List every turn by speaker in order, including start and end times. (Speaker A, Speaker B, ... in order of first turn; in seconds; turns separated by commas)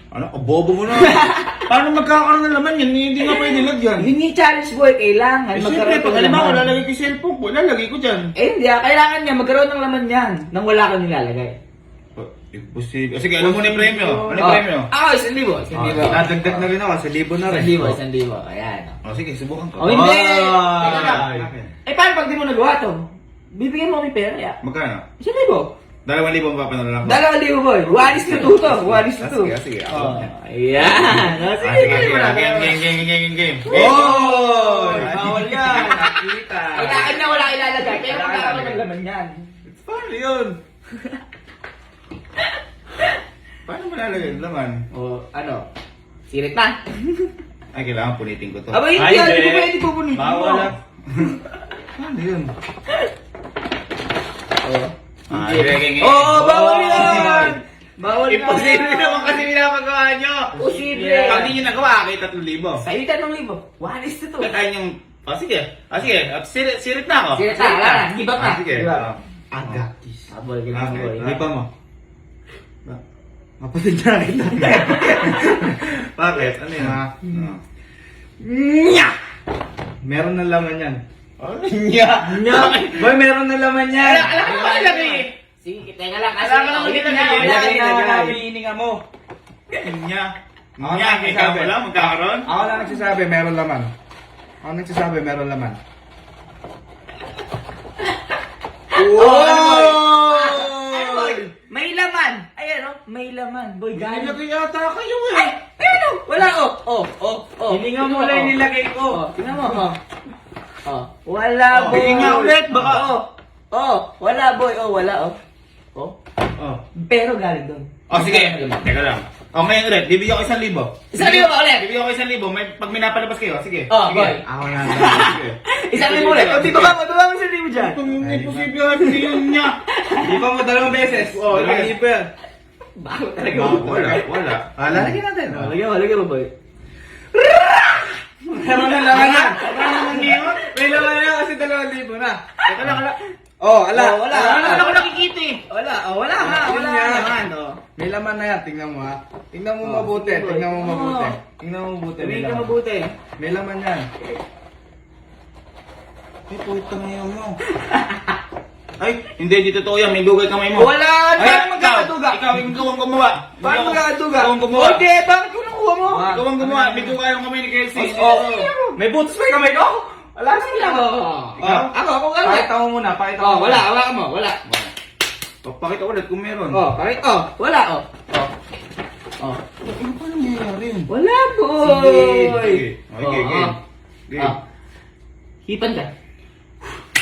Speaker A: 0.1-4.1, Speaker B: 0.9-1.6, Speaker B: 3.2-6.7, Speaker A: 5.5-8.3, Speaker B: 8.3-11.6, Speaker A: 12.2-14.9, Speaker C: 13.4-14.4, Speaker B: 14.3-16.6, Speaker A: 15.7-16.3, Speaker C: 16.0-18.0, Speaker B: 17.4-19.0, Speaker A: 19.0-20.1, Speaker B: 19.8-21.3, Speaker C: 19.8-21.5, Speaker A: 20.7-21.7, Speaker B: 21.9-24.6, Speaker A: 24.6-25.0, Speaker B: 25.2-25.7, Speaker A: 26.1-27.2, Speaker B: 27.0-32.8, Speaker A: 27.9-30.3, Speaker C: 29.9-30.2, Speaker A: 30.8-34.3, Speaker B: 33.6-36.1, Speaker C: 33.7-37.0, Speaker A: 34.9-37.2, Speaker B: 36.7-39.5, Speaker C: 38.0-38.6, Speaker A: 38.2-38.8, Speaker A: 39.6-40.6, Speaker A: 43.6-44.8, Speaker B: 44.9-45.6, Speaker B: 46.3-47.3, Speaker A: 47.7-51.4, Speaker B: 48.7-50.7, Speaker A: 52.0-52.5, Speaker B: 54.6-59.5, Speaker A: 55.3-57.6, Speaker C: 56.3-57.6, Speaker A: 58.1-60.6, Speaker C: 60.5-61.5, Speaker B: 60.5-61.5, Speaker A: 61.2-62.8, Speaker B: 62.8-64.5, Speaker A: 64.4-69.9, Speaker B: 67.3-69.1, Speaker C: 68.8-70.2, Speaker B: 70.3-71.3, Speaker A: 70.7-71.6, Speaker C: 71.2-71.7, Speaker C: 73.6-75.4, Speaker A: 74.5-77.6, Speaker B: 74.7-75.5, Speaker C: 76.8-77.3, Speaker B: 78.4-79.1, Speaker C: 80.0-81.0, Speaker A: 81.4-83.1, Speaker B: 82.2-83.0, Speaker C: 82.9-84.3, Speaker B: 84.0-88.4, Speaker A: 84.0-85.3, Speaker A: 86.4-87.6, Speaker C: 87.3-89.0, Speaker A: 89.7-92.5, Speaker C: 90.8-93.9, Speaker C: 94.6-95.8, Speaker C: 98.9-101.3, Speaker B: 99.0-104.4, Speaker A: 99.3-101.3, Speaker A: 103.9-105.6, Speaker B: 105.8-110.0, Speaker C: 107.7-109.9, Speaker B: 110.8-115.4, Speaker A: 111.7-113.1, Speaker C: 111.7-112.9, Speaker B: 116.9-118.9, Speaker A: 118.1-127.0, Speaker B: 121.1-121.9, Speaker B: 123.9-128.0, Speaker C: 124.4-125.3, Speaker A: 127.8-129.8, Speaker C: 128.2-128.7, Speaker B: 129.0-130.4, Speaker C: 130.2-132.3, Speaker A: 130.9-131.9, Speaker B: 132.9-134.2, Speaker A: 133.5-135.2, Speaker C: 134.8-135.7, Speaker B: 134.9-136.5, Speaker B: 137.3-140.4, Speaker C: 138.5-142.4, Speaker A: 139.1-140.7, Speaker B: 142.7-143.2, Speaker C: 143.6-144.8, Speaker B: 143.9-145.1, Speaker A: 144.3-145.6, Speaker B: 145.7-147.8, Speaker C: 146.3-147.4, Speaker C: 147.9-152.7, Speaker B: 149.8-151.4, Speaker B: 152.2-153.1, Speaker C: 153.4-154.1, Speaker A: 156.5-157.6, Speaker B: 157.8-158.3, Speaker A: 159.0-165.0, Speaker B: 160.7-162.4, Speaker C: 161.4-162.1, Speaker C: 163.6-164.5, Speaker B: 164.7-166.4, Speaker C: 166.1-167.1, Speaker A: 166.2-168.7, Speaker C: 167.9-171.0, Speaker B: 168.3-168.9, Speaker B: 170.4-172.7, Speaker A: 171.6-171.9, Speaker C: 171.6-171.9, Speaker C: 172.4-173.9, Speaker B: 173.4-174.6, Speaker A: 175.6-176.8, Speaker B: 176.7-178.5, Speaker A: 179.8-181.1, Speaker B: 181.1-183.7, Speaker A: 181.8-184.5, Speaker B: 185.6-186.1